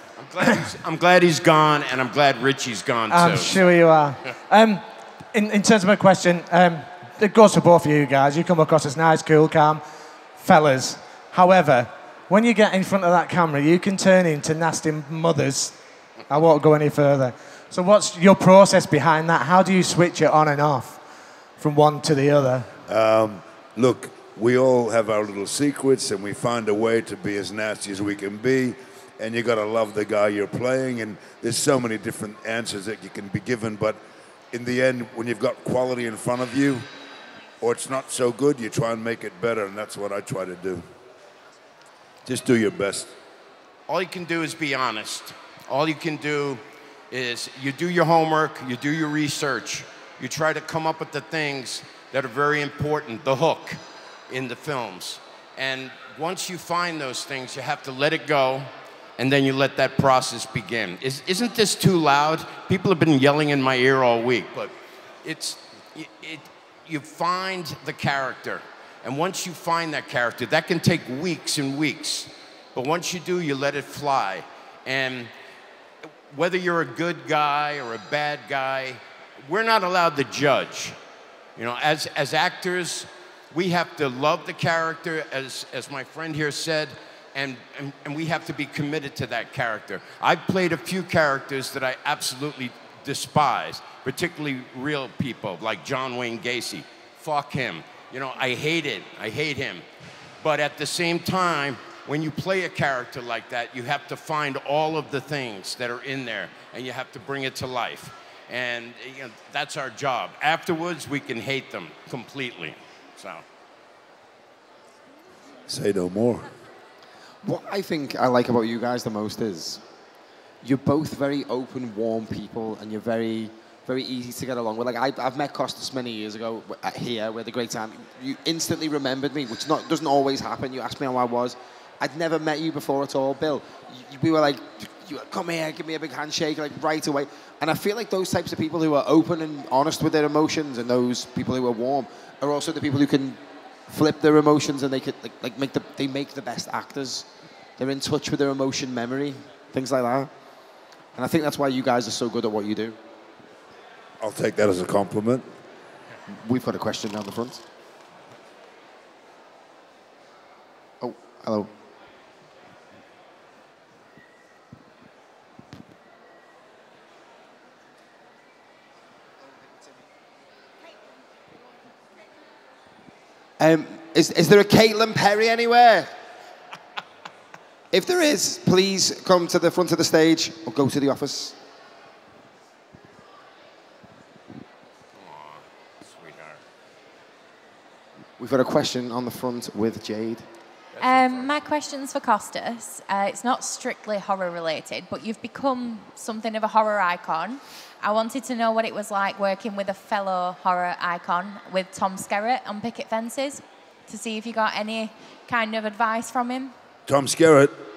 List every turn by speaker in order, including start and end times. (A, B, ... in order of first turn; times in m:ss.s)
0:00.2-0:03.5 A
0:00.4-0:00.6 B
0:03.1-0:09.8 B
0:10.4-0:15.8 B
0:16.3-0:21.0 B
0:21.6-0:22.7 B
0:22.9-0:34.0 C
0:34.5-0:36.8 C
0:37.6-0:40.8 C
0:42.2-0:43.1 C
0:43.9-1:04.7 A
1:05.2-1:15.3 A
1:16.3-1:21.0 A
1:21.6-1:39.8 A
1:40.4-1:53.4 A
1:55.7-1:56.5 C
1:57.4-1:59.8 D
2:00.6-2:30.3 D
2:31.1-2:33.0 D
2:34.2-2:35.4 C
2:36.4-2:37.6 D
2:41.0-2:41.7 D
2:53.6-2:56.1 D
2:57.9-3:01.6 D
3:05.2-3:06.6 A
3:08.4-3:10.4 D
3:11.0-3:11.5 A
3:11.0-3:26.7 E
3:27.1-3:27.7 C